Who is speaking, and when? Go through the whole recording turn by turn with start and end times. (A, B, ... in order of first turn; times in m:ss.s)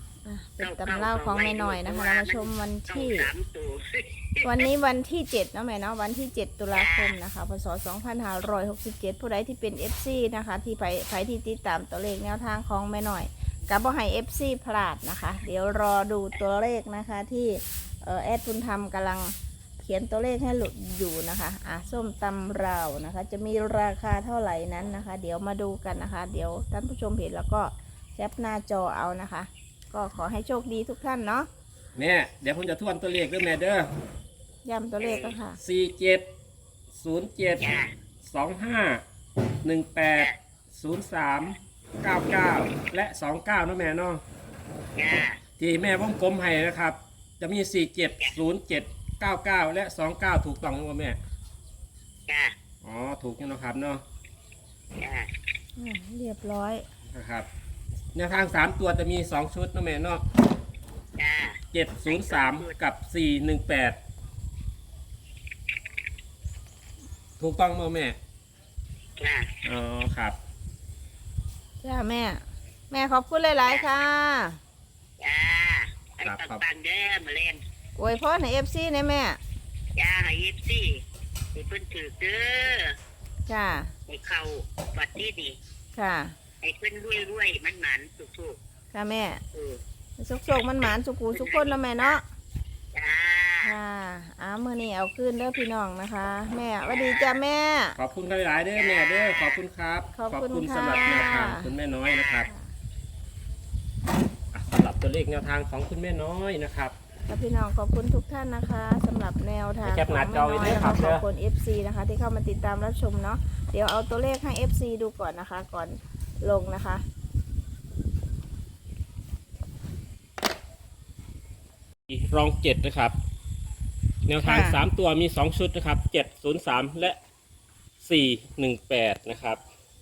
0:00.2-0:03.3 A
0:00.6-0:04.7 B
0:04.4-0:31.5 A
0:06.7-0:07.2 B
0:32.0-0:33.9 C
0:34.6-0:35.6 A
0:35.0-0:35.4 B
0:35.6-0:36.2 C
0:36.9-0:39.0 C
0:37.6-0:37.9 B
0:39.6-0:44.2 C
0:44.9-0:45.4 B
0:45.6-0:51.2 C
0:52.3-0:52.5 B
0:52.8-0:54.0 C
0:55.0-0:55.3 B
0:55.8-0:56.8 A
0:57.1-0:57.5 C
0:58.1-1:00.2 C
1:01.2-1:02.8 B
1:01.7-1:04.0 C
1:07.4-1:08.2 C
1:09.2-1:09.5 B
1:09.6-1:10.4 C
1:11.8-1:14.6 A
1:15.2-1:17.6 B
1:16.2-1:16.6 C
1:18.0-1:19.4 A
1:20.0-1:21.0 B
1:21.5-1:23.0 B
1:23.5-1:23.9 A
1:24.1-1:25.6 B
1:25.9-1:26.4 A
1:26.6-1:28.6 B
1:28.9-1:29.4 A
1:29.5-1:29.8 B
1:30.2-1:32.2 A
1:31.3-1:32.2 B
1:32.9-1:33.7 B
1:33.6-1:38.0 A
1:36.8-1:37.4 B
1:38.0-1:42.5 C
1:38.7-1:39.6 B
1:40.1-1:41.7 A
1:40.9-1:41.3 B
1:42.1-1:42.5 B
1:44.5-1:46.9 C
1:47.3-1:57.0 A
1:49.8-1:51.2 C
2:02.1-2:03.1 C
2:04.3-2:07.2 C
2:04.4-2:04.8 A
2:08.0-2:09.6 C